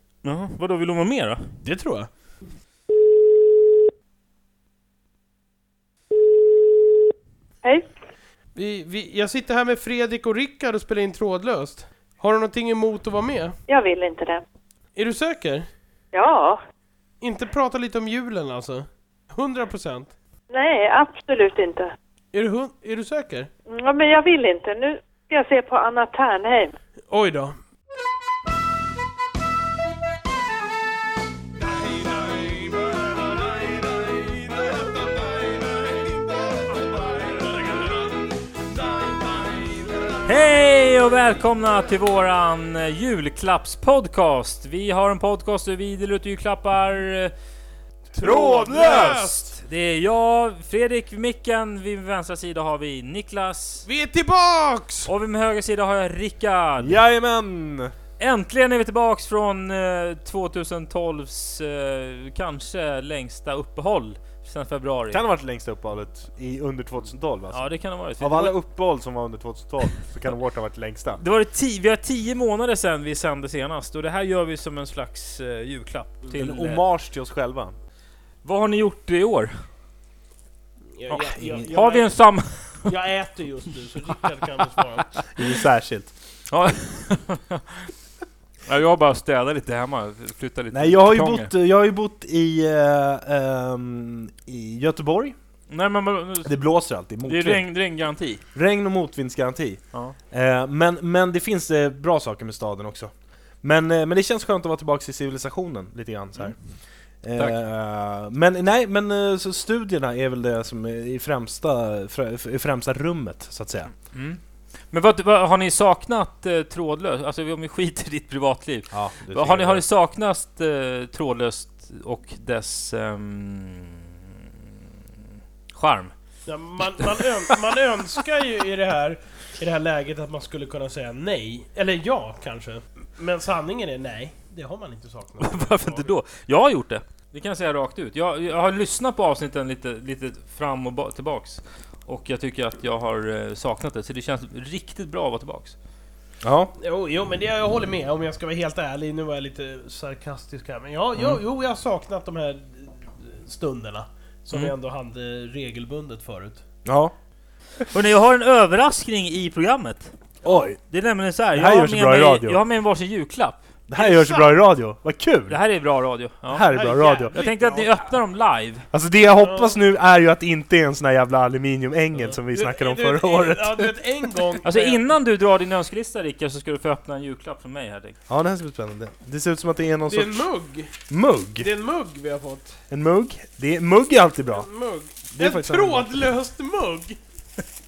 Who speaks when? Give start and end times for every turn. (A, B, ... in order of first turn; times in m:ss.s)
0:00.2-0:01.5 A
0:01.6-0:02.1 B
0:08.5-0:13.6 B
0:13.7-0:14.4 C
0:14.9-0:15.7 B
0:16.1-0:16.6 C
0:17.2-0:20.1 B
0:20.5-0:21.9 C
0:22.3-0:23.5 B
0:23.7-0:26.8 C
0:27.1-0:27.6 B
0:40.2-0:47.3 A
0:48.1-0:49.5 B
0:48.2-0:53.8 A
0:48.3-0:49.2 D
0:53.8-0:55.1 B
0:55.0-0:57.0 A
0:56.8-0:57.9 D
0:58.2-1:05.2 A
1:05.1-1:11.2 D
1:07.5-1:08.6 A
1:11.2-1:16.8 A
1:16.3-1:17.8 D
1:18.4-1:19.6 A
1:20.9-1:25.2 B
1:21.1-1:22.9 A
1:21.4-1:21.7 D
1:25.4-1:26.1 D
1:26.5-1:27.9 A
1:28.7-1:31.5 A
1:30.7-1:35.4 D
1:35.7-1:36.6 A
1:36.4-1:37.7 D
1:37.2-1:38.4 A
1:38.5-1:53.9 D
1:54.1-2:04.2 A
1:58.9-1:59.8 D
2:05.7-2:06.1 A
2:06.4-2:16.1 B
2:15.4-2:25.8 A
2:26.4-2:26.7 D
2:26.8-2:36.6 B
2:36.8-2:37.1 D
2:37.9-2:40.1 A
2:40.4-2:40.8 D
2:40.9-2:43.6 A
2:41.5-2:42.6 D
2:43.9-2:45.6 D
2:43.9-2:44.6 B
2:45.5-2:46.7 A
2:46.4-2:47.4 D
2:46.7-2:47.9 B
2:47.3-2:48.9 A
2:48.9-2:54.5 D
2:49.4-2:49.8 B
2:52.4-2:55.1 B
2:54.6-2:58.2 A
2:58.3-3:00.5 D
3:00.1-3:00.9 B
3:01.1-3:01.7 D
3:01.6-3:02.8 B
3:02.9-3:04.7 D
3:04.5-3:07.2 B
3:05.2-3:06.1 D